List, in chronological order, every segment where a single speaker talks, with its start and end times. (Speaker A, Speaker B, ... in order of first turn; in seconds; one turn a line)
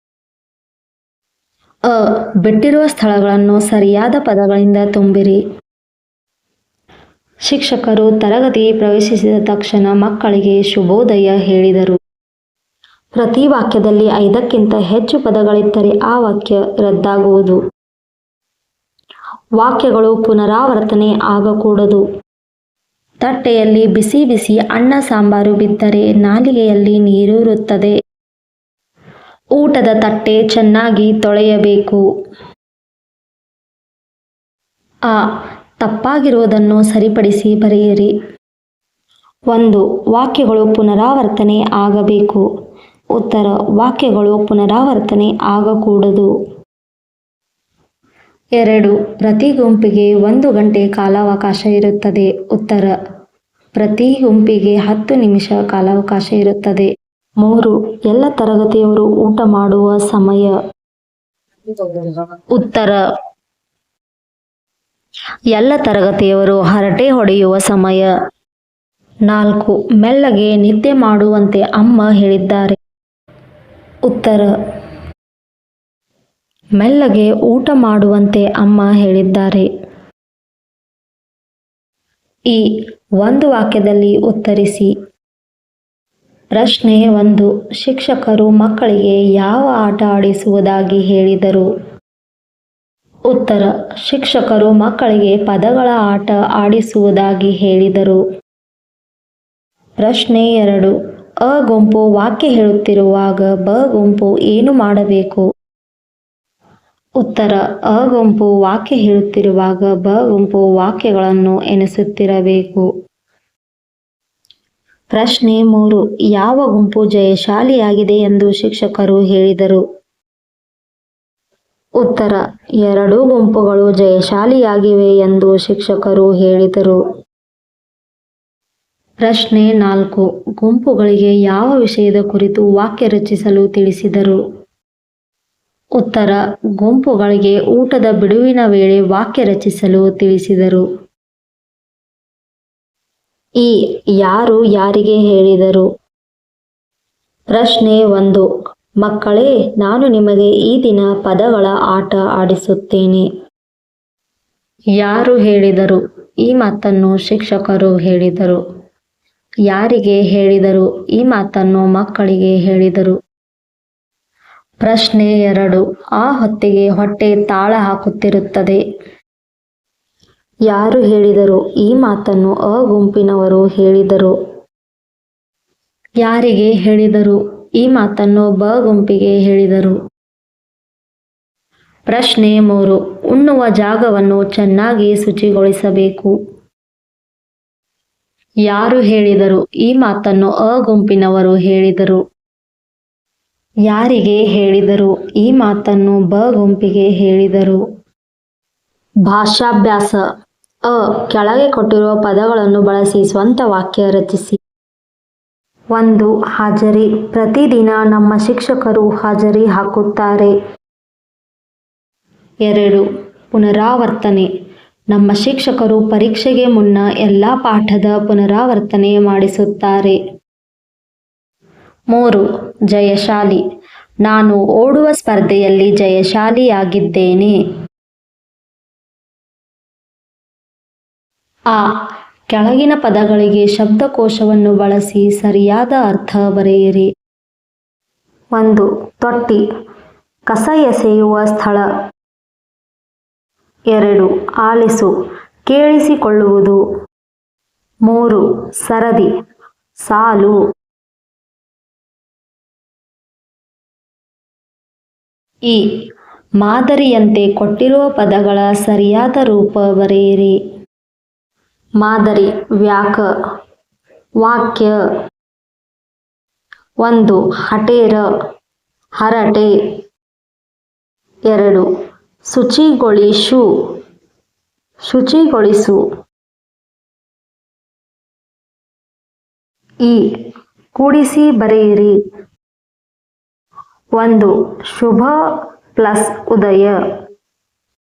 Speaker A: 1.9-5.4
Speaker A: 7.5-12.0
Speaker A: 13.2-17.6
Speaker A: 19.6-22.0
Speaker A: 23.2-27.9
Speaker A: 29.5-32.0
Speaker A: 35.8-38.1
Speaker A: 39.5-42.5
Speaker A: 43.1-46.3
Speaker A: 48.6-52.9
Speaker A: 53.8-56.9
Speaker A: 57.4-60.6
Speaker A: 61.7-63.0
Speaker A: 65.5-68.1
Speaker A: 69.3-72.8
Speaker A: 74.1-74.5
Speaker A: 76.8-79.7
Speaker A: 82.5-84.9
Speaker A: 86.5-91.7
Speaker A: 93.3-98.2
Speaker A: 100.0-105.5
Speaker A: 107.2-112.9
Speaker A: 115.1-119.8
Speaker A: 122.0-127.0
Speaker A: 129.2-134.4
Speaker A: 136.0-140.8
Speaker A: 143.6-145.9
Speaker A: 147.5-148.4
Speaker A: 149.0-153.2
Speaker A: 155.0-158.6
Speaker A: 159.7-163.2
Speaker A: 164.8-168.8
Speaker A: 170.7-174.3
Speaker A: 176.2-180.0
Speaker A: 182.1-186.3
Speaker A: 188.7-192.2
Speaker A: 193.9-197.8
Speaker A: 199.2-200.2
Speaker A: 200.8-204.6
Speaker A: 205.9-210.5
Speaker A: 212.6-214.5
Speaker A: 215.1-220.2
Speaker A: 222.1-223.6
Speaker A: 224.2-227.6
Speaker A: 232.5-237.1
Speaker A: 238.5-239.6
Speaker A: 240.5-241.8
Speaker A: 243.9-245.1
Speaker A: 245.7-246.8
Speaker A: 248.1-249.3
Speaker A: 250.0-250.6
Speaker A: 255.7-255.9
Speaker A: 256.6-260.6
Speaker A: 262.0-263.2
Speaker A: 264.4-264.9
Speaker A: 267.0-268.2
Speaker A: 269.2-269.7
Speaker A: 271.5-271.9
Speaker A: 272.5-273.6
Speaker A: 275.1-276.0
Speaker A: 280.0-280.4
Speaker A: 280.9-282.2
Speaker A: 284.1-285.4
Speaker A: 286.0-287.0